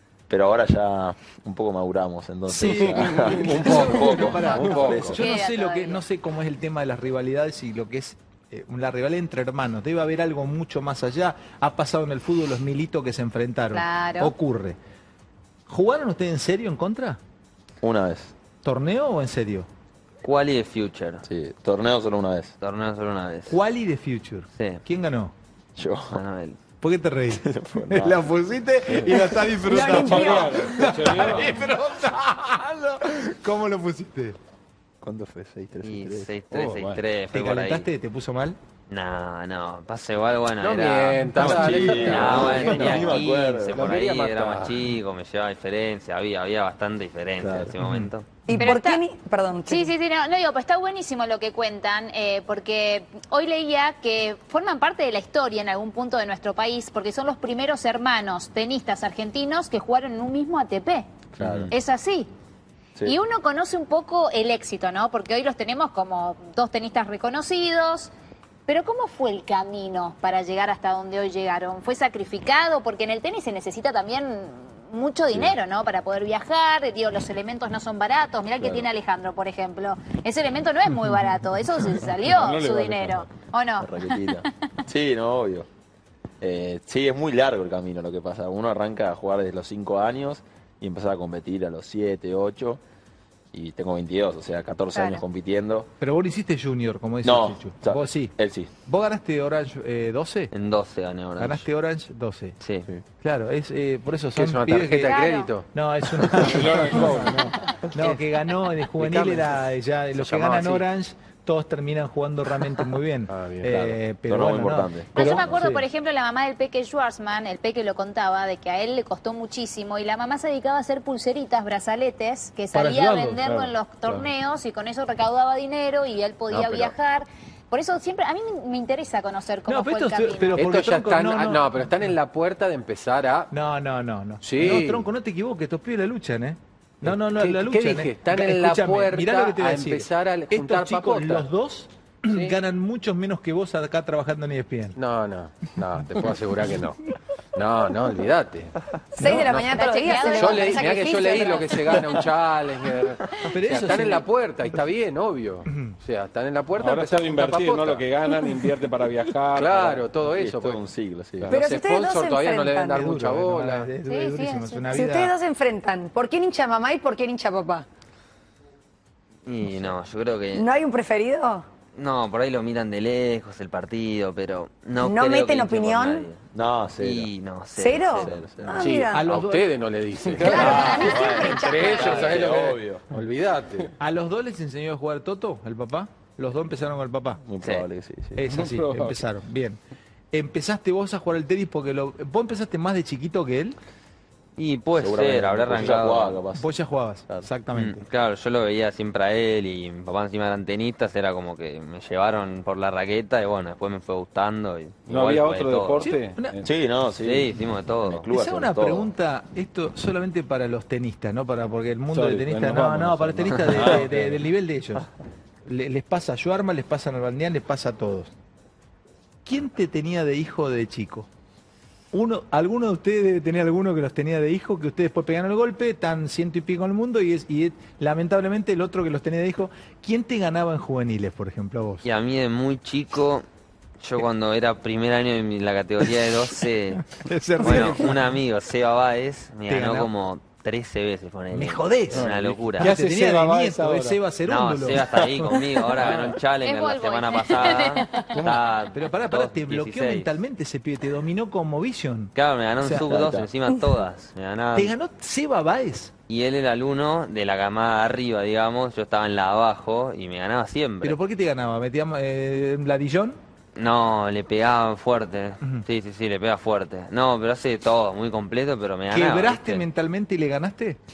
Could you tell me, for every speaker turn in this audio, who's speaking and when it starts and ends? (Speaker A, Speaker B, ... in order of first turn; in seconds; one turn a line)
Speaker A: 0.3-5.3
Speaker B: 2.5-14.8
Speaker C: 2.8-3.4
Speaker D: 3.5-5.2
Speaker E: 3.7-6.0
Speaker E: 13.7-14.3
Speaker B: 15.7-17.2
Speaker A: 17.8-18.3
Speaker B: 18.6-19.7
Speaker F: 20.2-21.2
Speaker A: 21.2-22.5
Speaker F: 22.6-23.6
Speaker B: 23.5-25.3
Speaker F: 24.5-24.8
Speaker A: 25.8-26.2
Speaker F: 26.1-26.6
Speaker B: 26.8-34.4
Speaker A: 27.4-28.2
Speaker G: 29.6-30.9
Speaker C: 29.9-31.6
Speaker A: 35.0-36.3
Speaker F: 35.8-37.9
Speaker C: 36.5-37.0
Speaker B: 37.3-38.6
Speaker F: 38.9-48.3
Speaker D: 40.6-44.8
Speaker A: 41.4-43.9
Speaker B: 41.5-42.0
Speaker A: 47.4-47.7
Speaker B: 47.8-48.6
Speaker G: 48.5-49.9
Speaker E: 48.5-49.0
Speaker E: 49.6-61.1
Speaker A: 61.4-61.7
Speaker F: 61.4-61.7
Speaker E: 61.7-62.3
Speaker E: 63.0-68.1
Speaker E: 68.7-84.5
Speaker A: 78.6-78.9
Speaker C: 82.2-83.3
Speaker A: 83.8-85.7
Speaker A: 86.4-92.8
Speaker A: 93.5-95.9
Speaker E: 94.9-95.2
Speaker B: 96.0-98.3
Speaker A: 97.2-98.7
Speaker B: 98.8-100.5
Speaker F: 100.5-101.6
Speaker B: 101.4-102.6
Speaker F: 102.6-102.9
Speaker B: 103.2-105.2
Speaker D: 104.3-105.7
Speaker E: 105.0-105.5
Speaker B: 105.7-115.8
Speaker C: 106.3-107.5
Speaker D: 107.9-108.2
Speaker D: 108.9-109.5
Speaker D: 110.1-110.8
Speaker D: 113.3-114.0
Speaker A: 114.3-115.6
Speaker E: 115.1-130.7
Speaker B: 122.7-123.4
Speaker C: 123.4-124.3
Speaker B: 129.7-131.8
Speaker D: 130.6-133.5
Speaker B: 133.5-145.0
Speaker D: 134.4-135.1
Speaker D: 137.0-141.5
Speaker D: 142.2-142.6
Speaker D: 144.9-147.0
Speaker D: 147.5-148.7
Speaker G: 149.1-152.0
Speaker B: 149.2-149.4
Speaker E: 149.2-152.2
Speaker D: 150.3-158.1
Speaker B: 153.3-154.2
Speaker B: 155.7-155.9
Speaker C: 156.8-160.1
Speaker D: 159.5-160.8
Speaker A: 160.3-161.6
Speaker D: 161.4-163.9
Speaker G: 161.5-163.1
Speaker B: 162.9-165.3
Speaker E: 164.0-164.9
Speaker G: 164.9-167.8
Speaker F: 169.4-170.7
Speaker G: 170.5-171.7
Speaker F: 171.9-176.4
Speaker G: 175.0-176.3
Speaker A: 176.5-177.3
Speaker F: 177.0-178.4
Speaker G: 177.7-179.2
Speaker A: 178.1-178.8
Speaker D: 178.8-180.9
Speaker B: 179.1-179.7
Speaker C: 180.3-181.0
Speaker G: 180.4-182.5
Speaker E: 180.5-181.5
Speaker B: 180.6-180.9
Speaker A: 180.6-183.0
Speaker D: 181.5-183.9
Speaker B: 184.0-187.4
Speaker A: 187.4-188.4
Speaker B: 188.4-189.8
Speaker C: 188.5-189.2
Speaker B: 190.3-193.8
Speaker F: 194.6-196.4
Speaker A: 194.9-196.7
Speaker B: 196.6-198.0
Speaker F: 197.7-206.1
Speaker C: 205.1-206.7
Speaker B: 206.0-206.6
Speaker A: 206.6-209.1
Speaker F: 207.2-208.2
Speaker B: 208.3-215.1
Speaker C: 212.1-214.4
Speaker B: 215.6-218.3
Speaker B: 219.4-221.3
Speaker B: 222.1-232.0
Speaker F: 232.0-233.4
Speaker F: 234.0-242.9
Speaker B: 237.1-238.2
Speaker B: 239.7-240.1
Speaker B: 241.5-246.3
Speaker C: 242.1-244.2
Speaker F: 244.5-250.3
Speaker C: 246.0-246.3
Speaker E: 246.6-248.4
Speaker C: 248.3-248.6
Speaker B: 248.9-253.1
Speaker F: 252.3-254.9
Speaker A: 252.9-253.5
Speaker B: 254.7-256.1
Speaker F: 256.3-261.2
Speaker B: 261.0-263.4
Speaker F: 263.8-269.9
Speaker B: 269.1-271.0